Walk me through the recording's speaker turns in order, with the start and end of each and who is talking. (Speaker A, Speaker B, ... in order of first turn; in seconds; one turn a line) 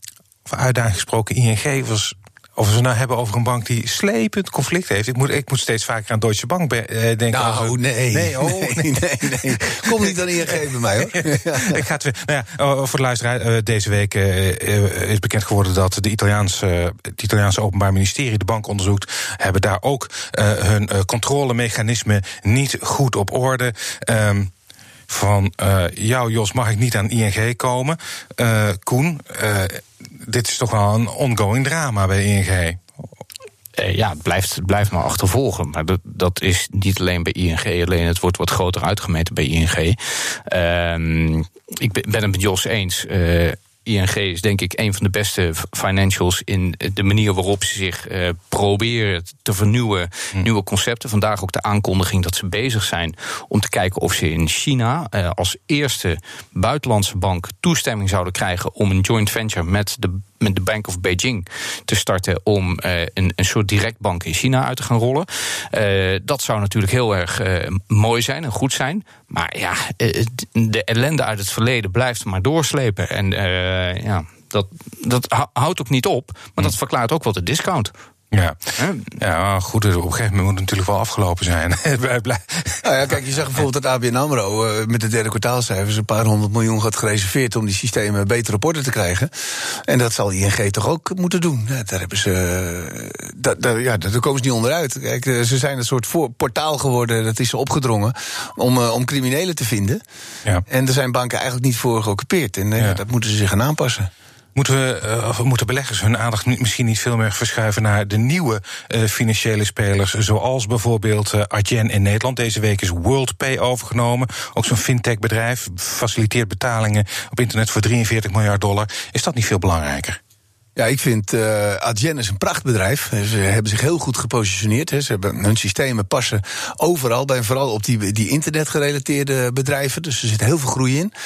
Speaker A: 0.5-24.5
Speaker B: 7.3-11.8
Speaker A: 25.1-32.8
Speaker C: 33.8-77.9
Speaker A: 78.3-82.9
Speaker C: 78.8-79.1
Speaker B: 82.8-89.3
Speaker B: 89.9-100.0
Speaker B: 100.7-104.1
Speaker A: 104.5-120.2
Speaker B: 120.8-131.1